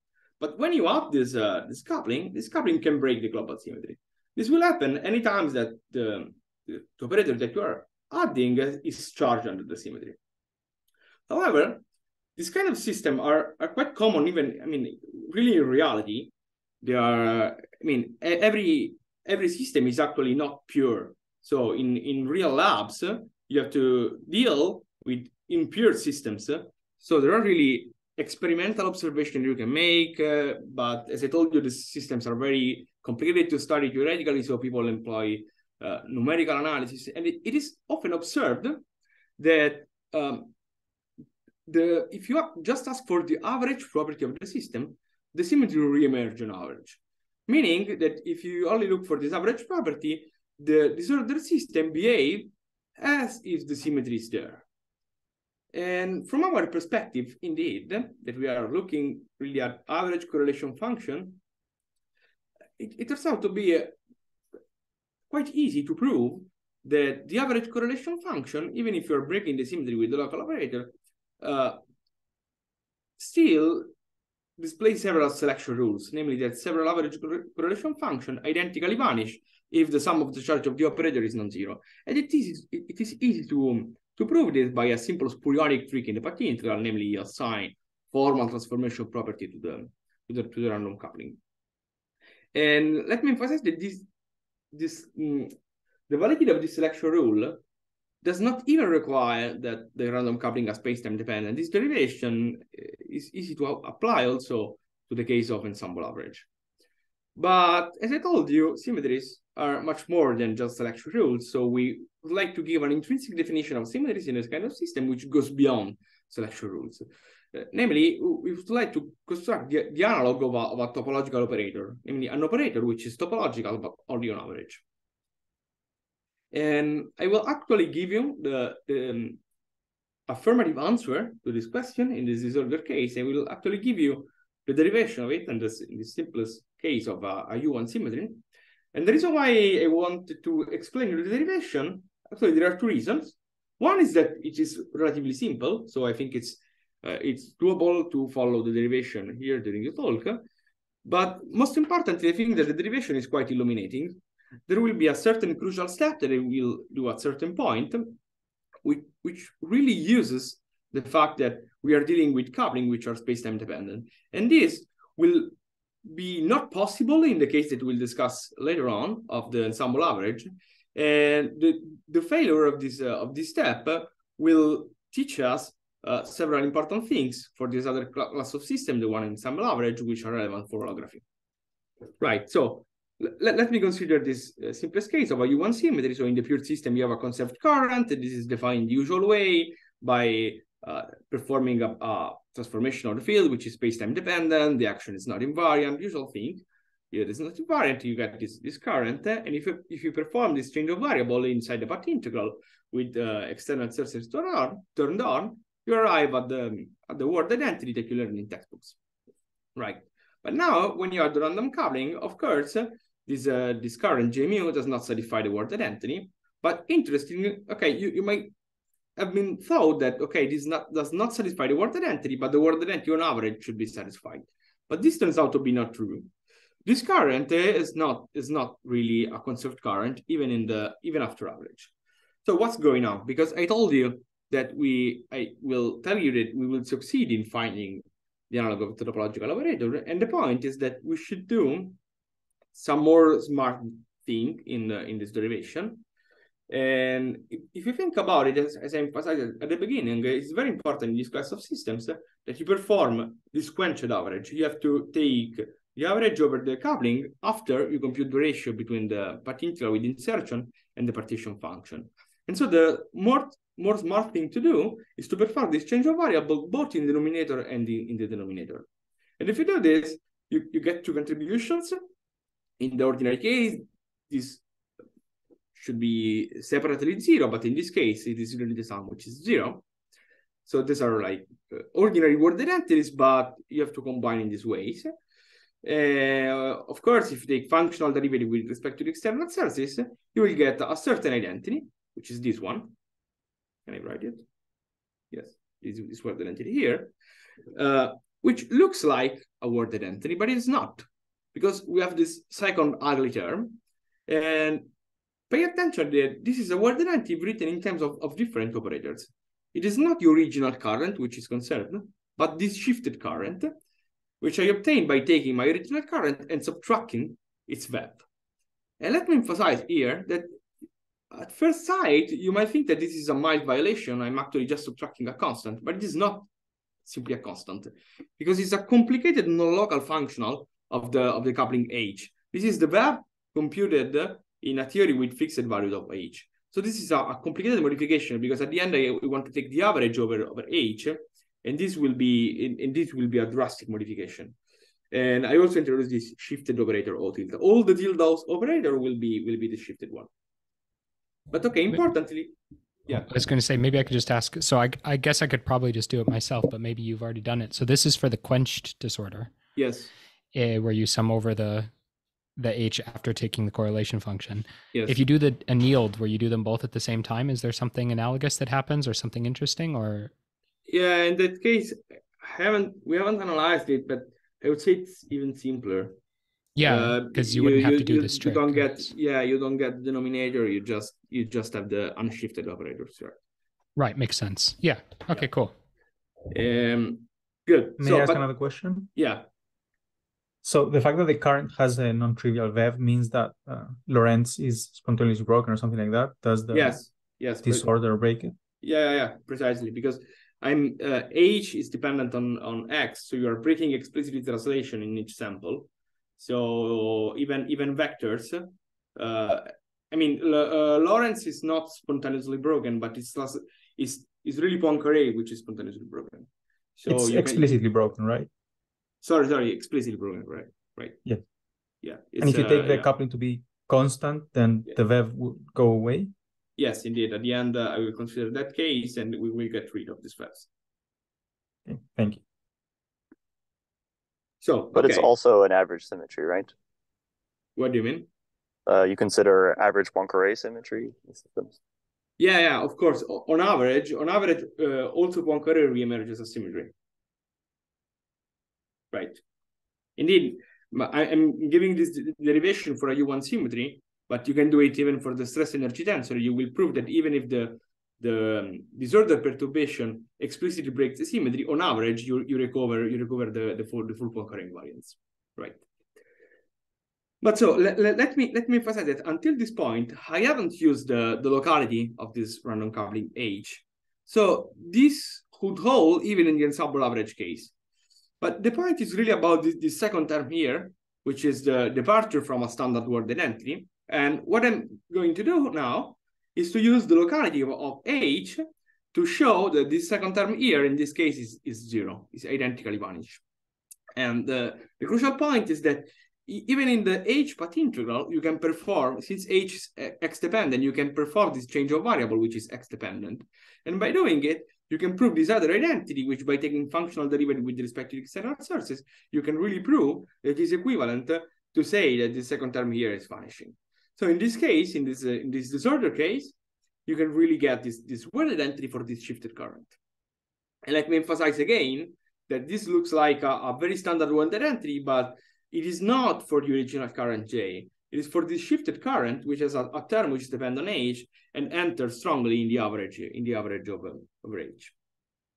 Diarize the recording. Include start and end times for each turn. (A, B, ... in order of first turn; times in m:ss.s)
0:00.4-0:10.2 A
0:11.3-0:11.8 A
0:12.4-0:38.8 A
0:39.4-0:40.5 A
0:41.6-0:54.6 A
0:55.7-1:01.4 A
1:02.8-1:04.0 A
1:05.3-1:11.8 A
1:13.2-1:13.9 A
1:14.6-1:31.4 A
1:32.5-1:34.1 A
1:34.7-1:35.5 A
1:36.1-1:37.6 A
1:38.2-1:46.5 A
1:47.4-2:04.8 A
2:06.5-2:09.4 A
2:10.3-2:18.4 A
2:18.9-2:30.4 A
2:31.0-2:38.2 A
2:38.8-2:45.5 A
2:46.0-3:01.2 A
3:02.2-3:29.0 A
3:29.8-3:38.5 A
3:39.2-3:46.3 A
3:46.8-3:51.9 A
3:52.4-4:02.0 A
4:02.7-4:06.0 A
4:06.7-4:28.9 A
4:29.4-4:32.0 A
4:32.8-4:34.6 A
4:35.7-4:39.8 A
4:40.6-4:45.1 A
4:45.8-4:52.9 A
4:53.9-4:54.4 A
4:55.3-4:57.1 A
4:57.7-5:04.9 A
5:05.5-5:13.7 A
5:14.4-5:18.2 A
5:19.0-5:20.5 A
5:21.3-5:26.5 A
5:27.0-5:44.6 A
5:45.1-5:50.3 A
5:51.5-5:52.5 A
5:53.1-5:59.5 B
5:59.7-6:00.1 A
6:00.5-6:01.9 B
6:02.6-6:10.3 B
6:04.9-6:05.2 A
6:10.9-6:16.2 A
6:16.8-6:18.9 B
6:16.8-6:23.4 A
6:24.0-6:25.7 B
6:26.5-6:28.6 A
6:28.0-6:29.1 C
6:29.1-6:29.4 A
6:30.6-6:37.0 C
6:36.7-6:37.9 A
6:37.6-6:38.6 C
6:38.8-6:57.7 A
6:57.1-6:58.5 C
6:59.2-7:01.2 A
7:02.0-7:03.1 A
7:02.4-7:06.3 C
7:06.8-7:10.7 A
7:11.9-7:12.4 C
7:14.6-7:15.3 A
7:14.9-7:16.7 D
7:17.8-7:18.3 A
7:18.8-7:21.8 D
7:22.4-7:26.9 A
7:29.1-7:29.4 A
7:30.2-7:45.8 A
7:47.4-7:57.7 A
7:58.4-8:08.6 A
8:09.1-8:13.4 A
8:14.1-8:40.0 A
8:40.8-8:54.9 A